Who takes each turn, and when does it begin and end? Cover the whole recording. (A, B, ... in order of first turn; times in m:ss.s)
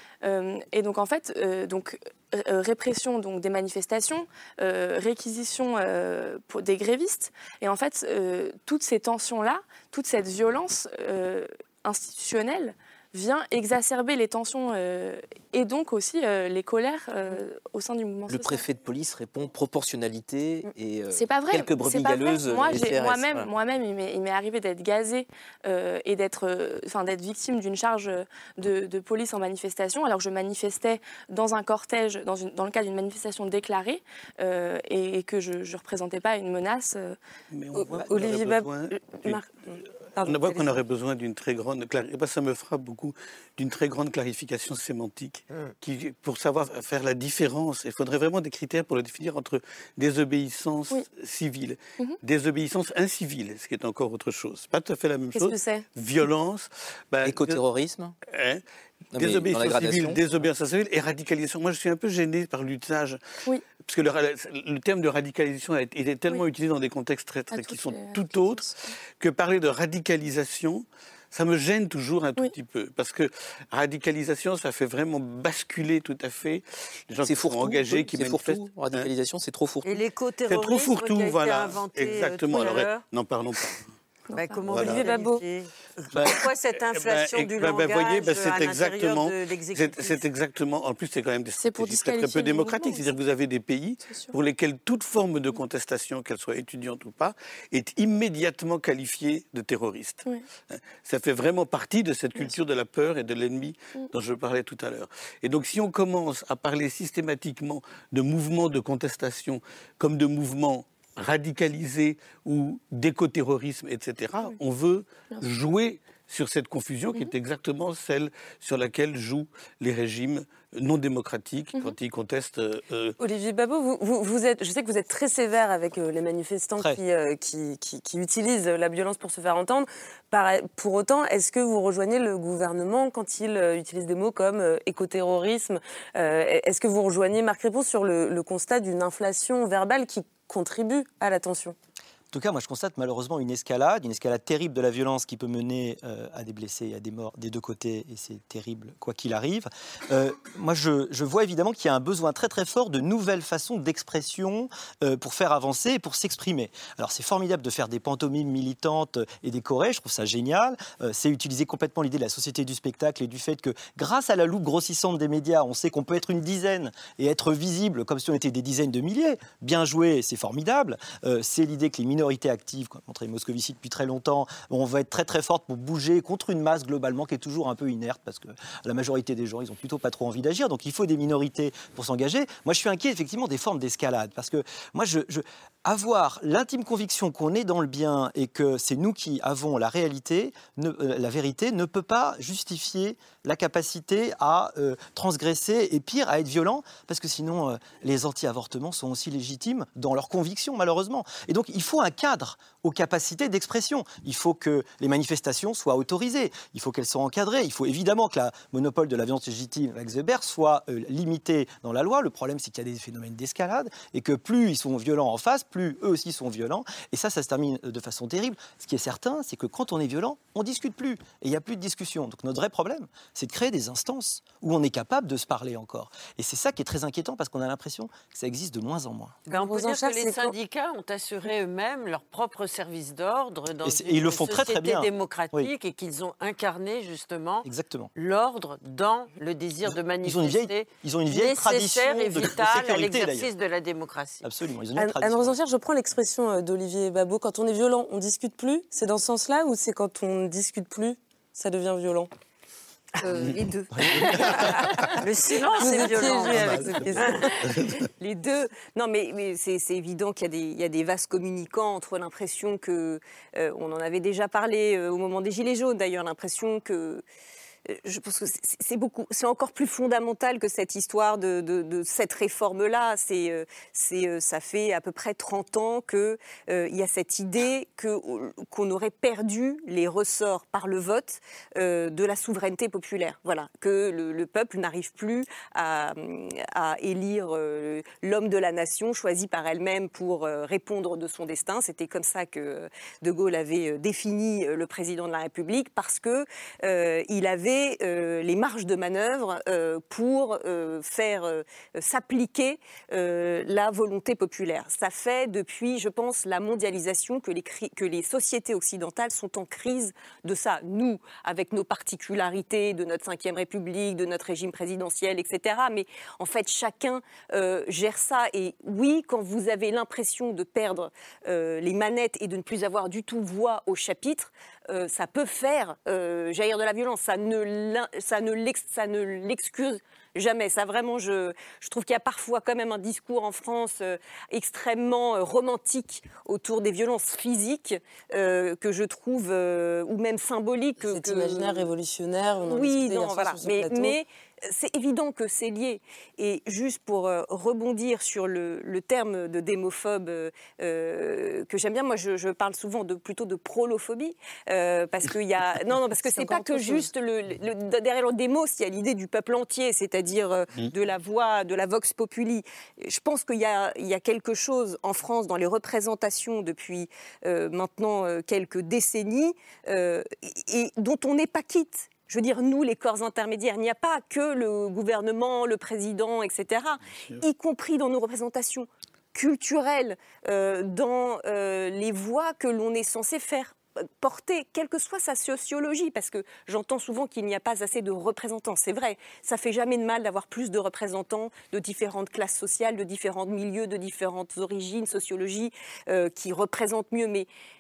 0:00.2-0:18.6 A
0:18.3-0:23.5 B
0:21.1-0:37.2 A
0:37.5-0:39.4 C
0:37.8-0:40.8 D
0:40.2-0:57.6 C
0:55.4-0:55.9 D
0:57.2-0:58.2 B
0:58.3-0:58.6 C
0:59.2-1:00.4 B
0:59.2-1:03.2 C
1:03.8-1:19.1 C
1:07.5-1:08.5 A
1:17.2-1:20.0 B
1:19.8-1:23.1 E
1:20.5-1:23.9 C
1:24.3-1:25.1 A
1:24.3-1:30.2 E
1:24.6-1:25.2 C
1:24.8-1:25.4 D
1:26.1-2:03.2 C
1:31.6-1:33.2 A
1:34.1-1:34.3 A
2:03.2-2:21.8 D
2:22.3-3:49.4 F
3:49.5-4:04.5 E
3:49.5-3:50.6 D
3:53.8-3:55.7 F
3:57.6-3:58.1 F
3:59.9-4:03.5 F
4:04.4-4:05.6 F
4:05.0-4:12.3 D
4:13.2-4:14.7 G
4:14.2-4:14.8 C
4:15.2-4:17.0 E
4:15.8-4:17.5 D
4:16.3-4:18.1 C
4:18.2-4:27.2 G
4:27.9-5:41.9 G
5:41.0-5:44.2 D
5:42.7-6:37.5 G
5:56.3-5:57.0 D